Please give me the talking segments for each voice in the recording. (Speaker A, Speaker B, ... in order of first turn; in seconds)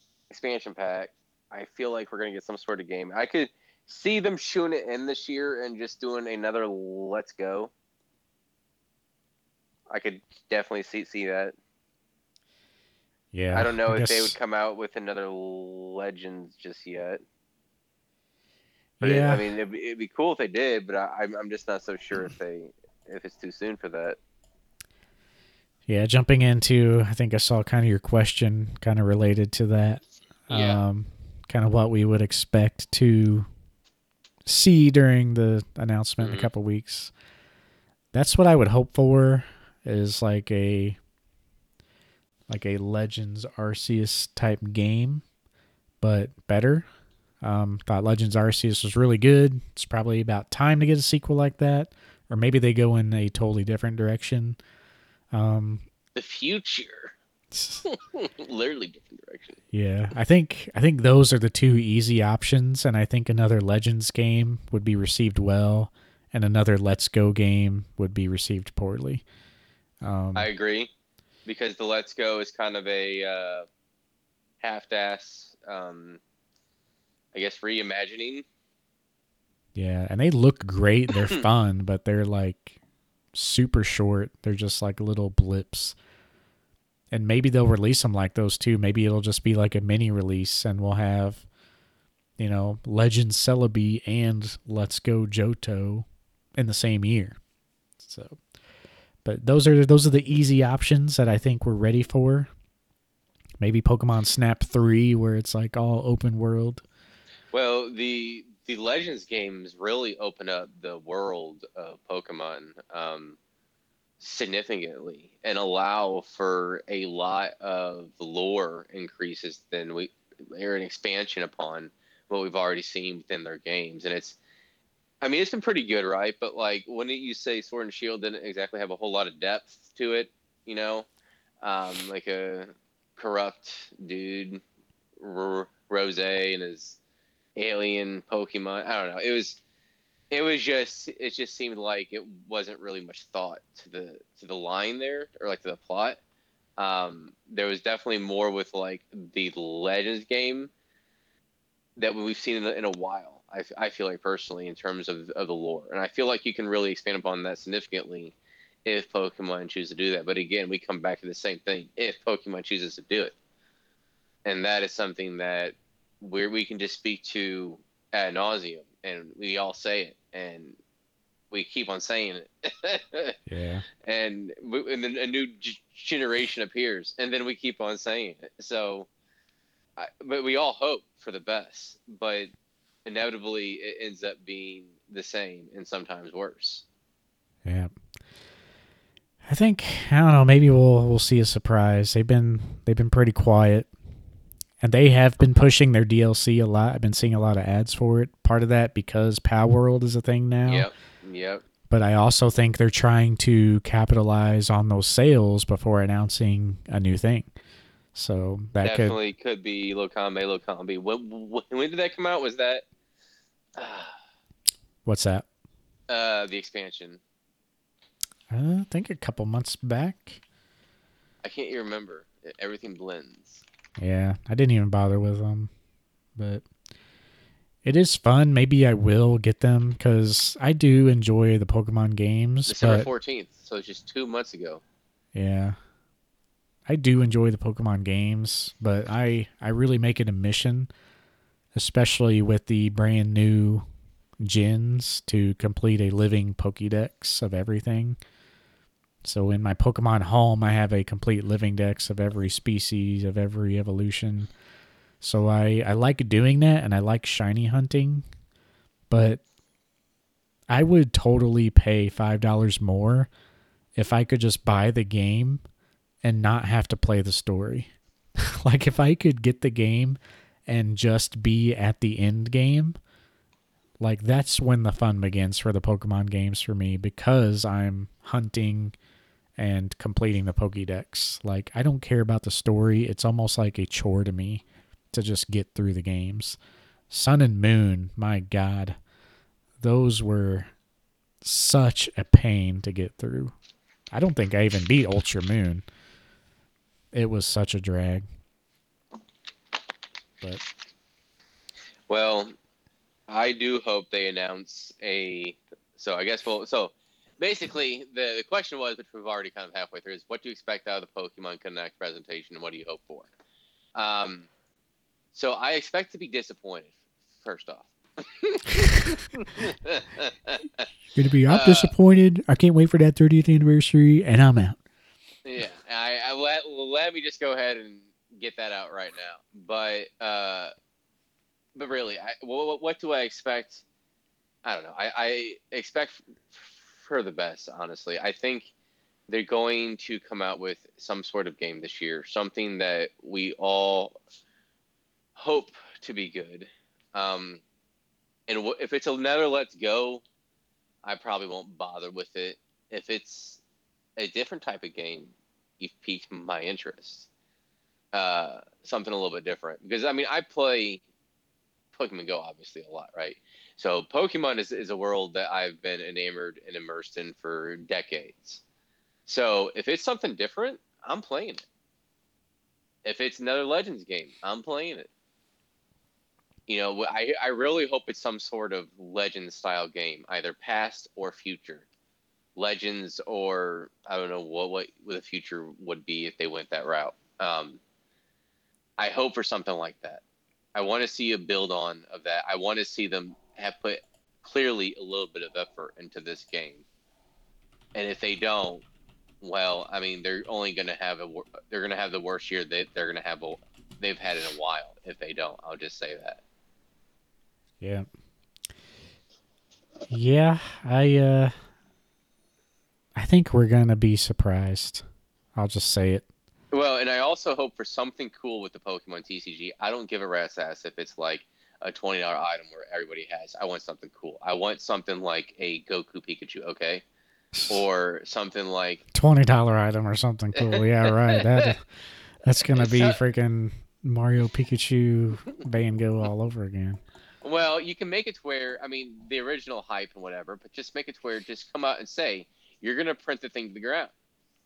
Speaker A: 0.3-7.7, 9.9-11.6, 13.5-17.2, 19.0-24.2, 30.5-30.8, 36.2-36.5, 56.1-57.2, 57.9-59.6, 70.4-70.9, 71.5-73.7, 74.6-76.2, 77.3-78.5, 107.5-113.4, 114.2-124.4, 125.2-131.1, 131.6-134.6, 135.2-137.0, 137.6-139.6, 140.3-146.2, 146.8-150.7, 152.0-158.3, 158.9-163.3, 164.4-170.8, 171.5-173.4, 174.0-179.1, 180.0-182.5, 183.1-186.8, 200.7-201.6, 208.8-212.8, 213.8-214.2, 216.1-217.2, 221.4-223.6, 232.7-234.8, 302.1-302.6, 303.3-313.3, 313.9-314.5, 315.3-320.9, 321.5-321.9, 325.4-330.7, 331.8-333.8, 334.6-338.7, 339.3-344.2, 345.4-347.6, 348.5-350.2, 351.0-353.6, 354.2-357.3, 358.1-361.0, 361.9-368.6, 369.3-371.6, 373.1-375.1, 376.7-381.9, 382.6-387.8, 389.0-390.2, 390.8-396.9, 397.9-398.8, 399.4-406.4, 416.7-427.0, 427.7-429.0, 430.6-431.7, 432.6-433.2, 437.4-444.1
Speaker B: 13.3-14.3, 19.0-19.4, 25.9-33.5, 34.5-37.1, 38.1-41.0, 42.5-45.2, 46.0-46.9, 47.4-54.6, 55.3-55.9, 57.5-57.8, 59.7-69.2, 70.0-70.5, 79.8-82.8, 83.3-86.0, 87.1-91.5, 92.4-96.1, 96.6-97.4, 98.0-98.4, 99.2-102.5, 103.6-106.8, 173.5-173.9, 187.7-187.9, 189.4-193.9, 194.8-200.9, 201.9-207.5, 208.2-209.2, 215.1-215.5, 218.5-220.4, 224.0-225.7, 226.4-226.7, 227.8-233.1, 235.3-235.8, 236.9-240.9, 241.8-243.9, 244.4-248.2, 249.2-254.5, 255.2-258.3, 259.1-259.4, 260.7-263.3, 264.0-265.6, 266.2-273.0, 274.0-278.9, 279.6-286.6, 287.1-289.0, 289.8-290.7, 291.4-293.5, 294.1-295.9, 297.1-298.3, 321.1-324.8, 407.8-408.1, 410.1-411.6, 413.1-415.0, 415.6-416.2, 429.1-431.9, 432.4-437.0